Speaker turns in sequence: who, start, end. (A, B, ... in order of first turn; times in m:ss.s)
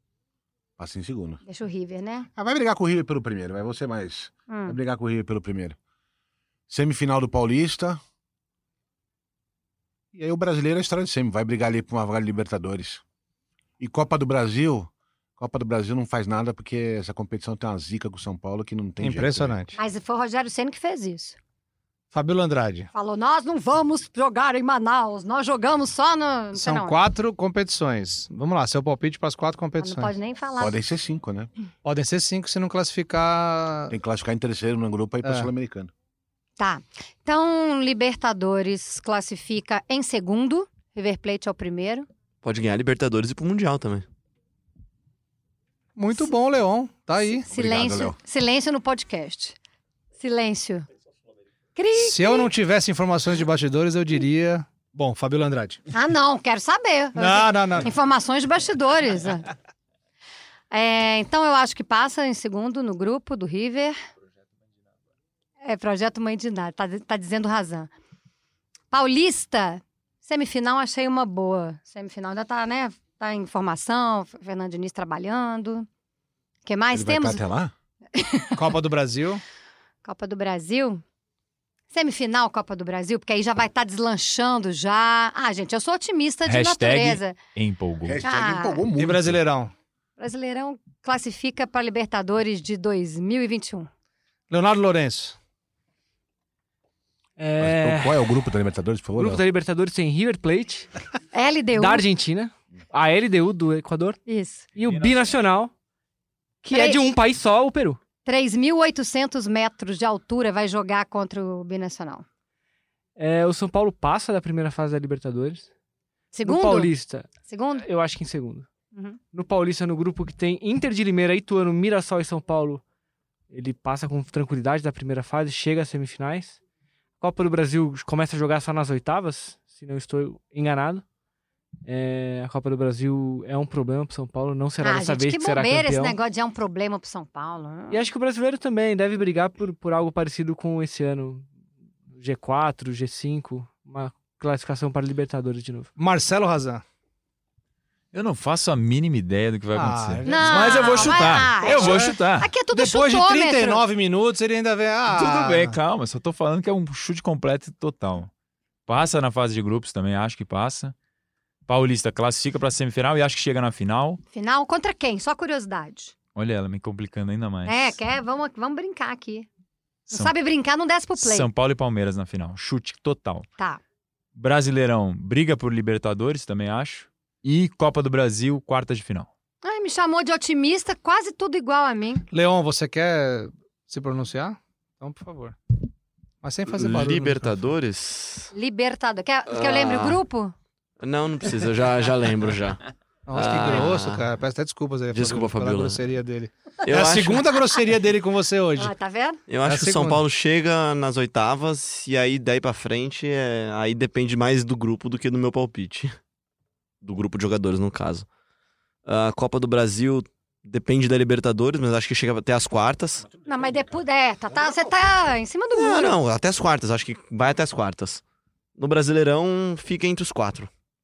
0:00.8-0:01.4 A
0:01.4-0:02.3 B
0:02.4-0:05.8 A
0:04.5-0:04.8 B
0:06.7-0:08.0 A
0:10.1-0:13.0 A
0:13.8-0:19.6 A
0:19.0-0:19.8 C
0:19.7-0:21.4 B
0:22.1-0:22.9 C
0:22.9-0:27.0 B
0:26.5-0:30.1 C
0:29.8-0:30.8 B
0:30.6-0:31.5 A
0:31.8-0:33.9 C
0:33.9-0:35.9 A
0:35.2-0:35.5 C
0:36.6-0:42.1 B
0:42.4-0:44.0 D
0:46.0-0:47.5 C
0:47.5-0:49.6 B
0:47.5-0:48.2 A
0:50.2-0:50.8 B
0:51.8-0:52.5 B
0:52.0-0:55.8 C
0:55.9-0:59.5 B
0:57.2-0:57.9 C
1:00.7-1:04.0 B
1:05.6-1:07.9 B
1:08.9-1:15.9 B
1:16.6-1:17.4 B
1:16.9-1:17.7 A
1:18.1-1:18.6 B
1:18.6-1:19.4 C
1:20.0-1:21.0 B
1:21.9-1:27.4 B
1:26.5-1:28.2 E
1:28.0-1:29.4 A
1:28.2-1:28.8 B
1:29.0-1:29.7 C
1:30.2-1:33.9 B
1:34.5-1:35.4 C
1:37.4-1:38.3 F
1:37.6-1:39.4 A
1:39.2-1:40.9 F
1:41.3-1:42.0 B
1:41.7-1:44.2 F
1:44.2-1:44.7 B
1:44.7-1:45.7 F
1:44.8-1:45.3 E
1:46.6-1:48.0 F
1:46.7-1:47.0 B
1:48.2-1:52.2 B
1:53.2-1:55.7 F
1:56.3-1:56.9 B
1:56.4-1:58.7 F
1:57.4-1:57.8 B
1:59.3-2:02.8 F
2:03.5-2:06.6 F
2:07.2-2:11.0 F
2:11.8-2:16.2 F
2:14.8-2:18.0 B
2:17.9-2:21.5 F
2:22.1-2:25.9 F
2:26.0-2:26.8 C
2:28.1-2:32.5 E
2:29.7-2:32.2 C
2:30.2-2:33.8 B
2:32.7-2:35.8 C
2:35.1-2:38.3 E
2:38.9-2:40.9 E
2:41.7-2:44.2 E
2:44.3-2:46.1 B
2:46.3-2:48.0 E
2:47.6-2:49.5 B
2:50.1-2:51.5 B
2:51.2-2:53.5 E
2:54.4-2:59.3 E
2:59.6-3:02.3 B
3:02.3-3:05.6 C
3:06.4-3:07.6 C
3:06.7-3:08.5 D
3:08.5-3:10.5 B
3:09.5-3:10.2 D
3:11.0-3:12.8 D
3:13.3-3:18.9 C
3:13.3-3:14.3 D
3:15.1-3:16.0 D
3:16.8-3:17.6 D
3:18.8-3:19.4 B
3:19.5-3:26.2 D
3:19.6-3:20.2 C
3:27.0-3:28.3 D
3:29.0-3:33.3 D
3:33.4-3:36.2 B
3:35.7-3:38.2 D
3:38.8-3:40.7 D